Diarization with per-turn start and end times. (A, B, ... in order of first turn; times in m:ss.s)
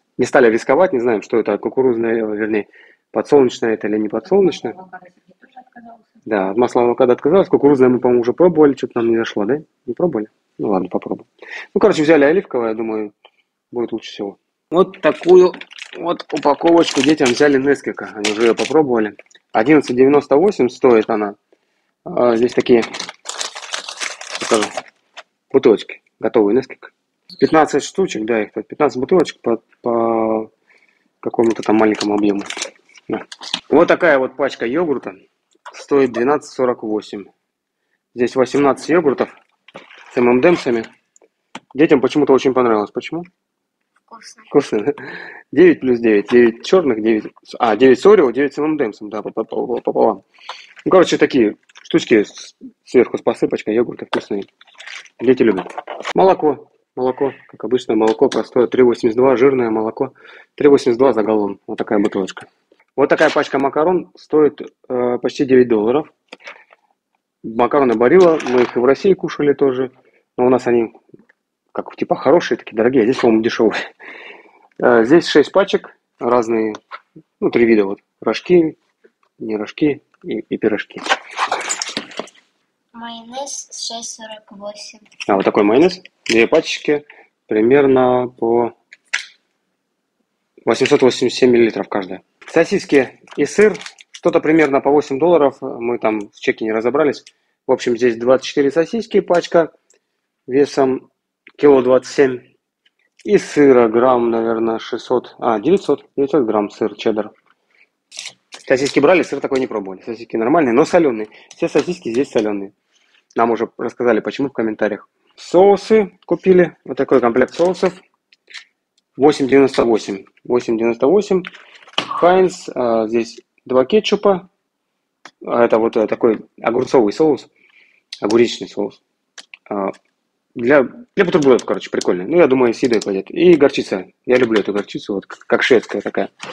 0:00.2-0:05.1 A
0:05.1-0:06.0 B
0:06.2-0:13.1 A
0:13.7-0:21.4 A
0:22.0-0:22.9 A
0:24.3-0:24.7 A
0:25.5-0:30.5 A
0:31.2-0:32.5 A
0:33.1-0:35.2 A
0:35.7-0:37.3 A
0:38.1-0:39.3 A
0:40.1-0:40.9 A
0:41.7-0:43.3 A
0:44.1-0:44.5 B
0:44.4-0:50.2 A
0:50.8-0:54.5 A
0:55.2-1:06.1 A
1:07.4-1:11.0 A
1:11.7-1:13.8 A
1:14.8-1:16.8 A
1:17.4-1:18.8 A
1:19.4-1:21.1 A
1:22.9-1:25.1 B
1:25.2-1:28.8 A
1:30.7-1:39.7 A
1:40.5-1:42.5 A
1:43.2-1:47.3 A
1:48.6-1:52.7 A
1:53.4-1:58.0 A
1:59.2-2:01.5 A
2:02.1-2:04.5 A
2:05.4-2:07.5 A
2:08.2-2:09.0 A
2:09.7-2:10.0 A
2:10.6-2:16.3 A